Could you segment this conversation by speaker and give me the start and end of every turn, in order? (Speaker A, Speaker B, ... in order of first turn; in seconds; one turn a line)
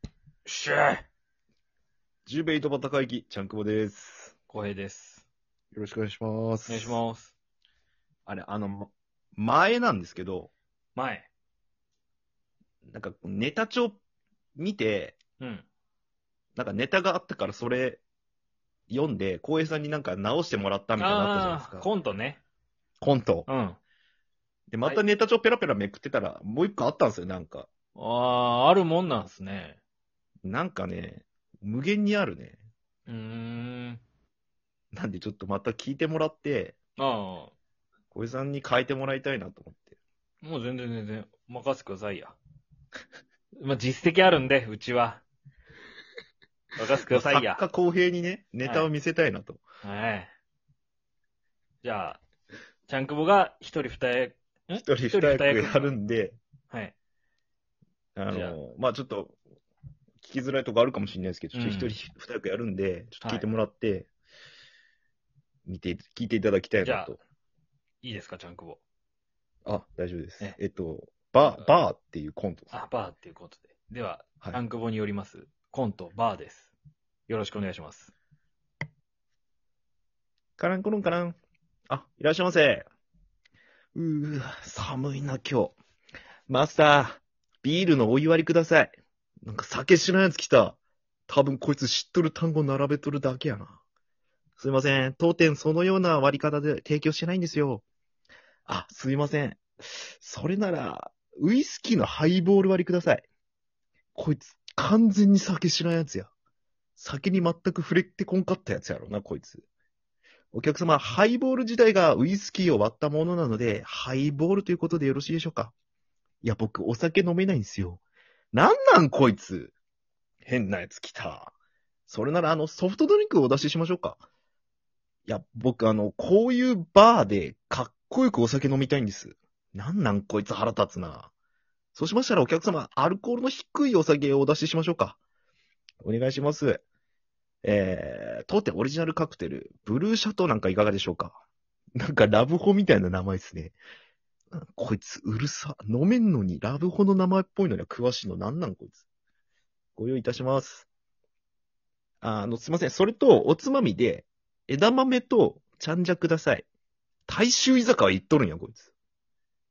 Speaker A: 0.5-1.0
Speaker B: 2.2-4.3
Speaker A: 4.5-5.2
Speaker B: 5.7-7.0
Speaker A: 6.7-7.3
Speaker B: 8.2-10.5
Speaker A: 11.0-11.3
Speaker B: 12.9-14.0
Speaker B: 14.6-15.2
Speaker A: 15.4-15.6
Speaker B: 16.6-18.0
Speaker B: 18.9-21.9
Speaker A: 21.0-22.4
Speaker B: 23.0-23.5
Speaker A: 23.5-23.8
Speaker B: 24.7-27.7
Speaker A: 28.0-29.8
Speaker B: 30.4-32.6
Speaker A: 33.1-34.0
Speaker B: 34.9-36.8
Speaker A: 37.0-37.5
Speaker B: 38.1-40.0
Speaker A: 40.4-42.4
Speaker A: 43.6-45.2
Speaker A: 46.8-47.6
Speaker B: 47.1-49.6
Speaker A: 48.6-48.9
Speaker A: 49.8-50.3
Speaker A: 51.8-52.2
Speaker A: 52.9-55.9
Speaker B: 54.8-56.4
Speaker A: 56.7-57.0
Speaker B: 58.1-59.4
Speaker A: 58.3-58.6
Speaker B: 60.2-64.1
Speaker A: 61.5-61.9
Speaker B: 65.7-67.2
Speaker A: 66.8-67.1
Speaker A: 68.0-68.8
Speaker B: 69.7-72.8
Speaker A: 72.7-76.7
Speaker A: 77.3-78.1
Speaker B: 80.6-81.4
Speaker B: 81.9-82.9
Speaker B: 84.0-85.8
Speaker B: 86.5-90.8
Speaker B: 91.3-93.8
Speaker B: 94.6-97.8
Speaker B: 98.7-103.2
Speaker B: 104.2-106.3
Speaker B: 107.0-109.7
Speaker B: 110.5-115.7
Speaker B: 116.4-118.0
Speaker B: 118.5-119.7
Speaker B: 120.5-121.5
Speaker B: 122.1-124.2
Speaker B: 125.3-131.3
Speaker B: 131.9-135.2
Speaker B: 136.0-136.8
Speaker B: 137.6-141.4
Speaker B: 142.0-143.8
Speaker B: 144.5-149.0
Speaker B: 150.0-150.9
Speaker B: 152.2-156.7
Speaker B: 157.3-158.9